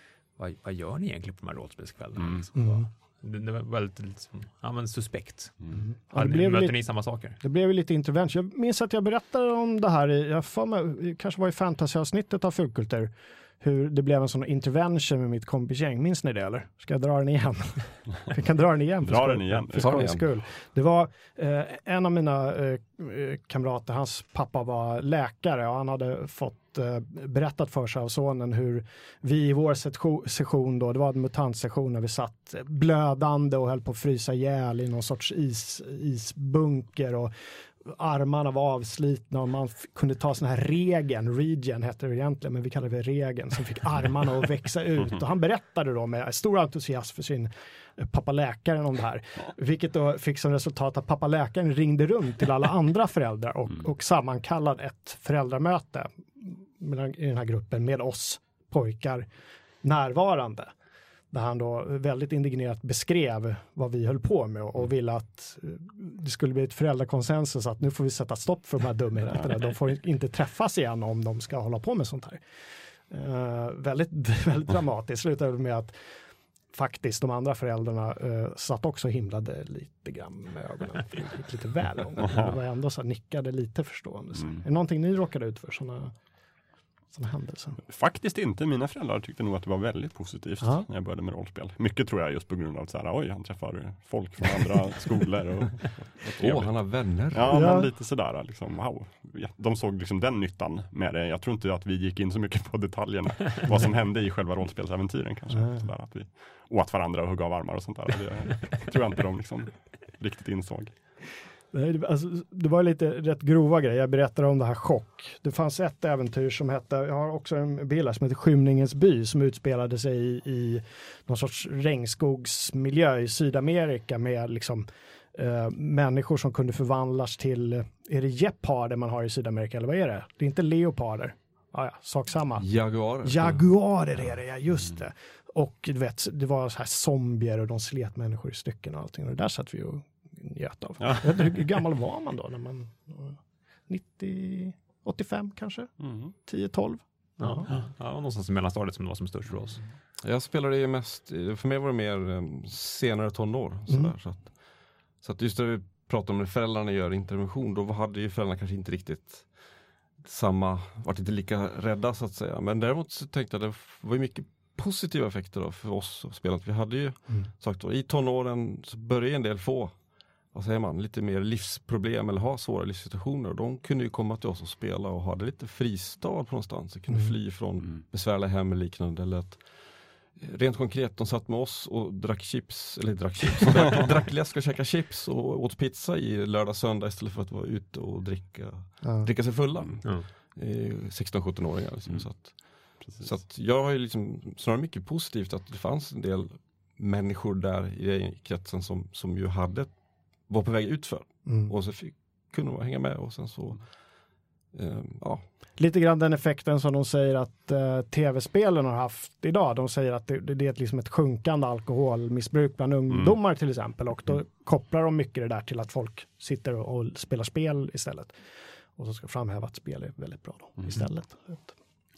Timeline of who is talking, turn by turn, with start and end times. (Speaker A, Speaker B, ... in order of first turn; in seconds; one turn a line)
Speaker A: 0.4-7.4
Speaker B: 2.5-2.9
Speaker B: 5.7-59.3
Speaker C: 19.0-20.0
Speaker D: 19.7-20.2
Speaker B: 59.8-60.7
Speaker B: 61.3-72.4
Speaker B: 73.1-76.0
Speaker B: 76.7-86.1
Speaker C: 84.4-84.6
Speaker B: 87.1-87.8
Speaker C: 87.9-110.9
Speaker B: 90.6-90.8
Speaker D: 96.3-97.7
Speaker B: 97.5-97.9
Speaker B: 105.5-105.8
Speaker B: 111.7-132.7
Speaker D: 132.6-133.7
Speaker B: 133.2-147.7
Speaker C: 141.0-141.6
Speaker C: 146.0-146.3
Speaker A: 147.4-149.8
Speaker D: 150.2-154.6
Speaker B: 153.9-154.1
Speaker D: 155.2-159.5
Speaker D: 160.2-169.9
Speaker D: 170.5-179.6
Speaker D: 180.3-199.9
Speaker B: 189.0-189.3
Speaker D: 200.5-203.8
Speaker B: 201.4-201.7
Speaker D: 204.7-205.4
Speaker B: 205.8-218.3
Speaker C: 213.1-213.3
Speaker B: 218.9-221.7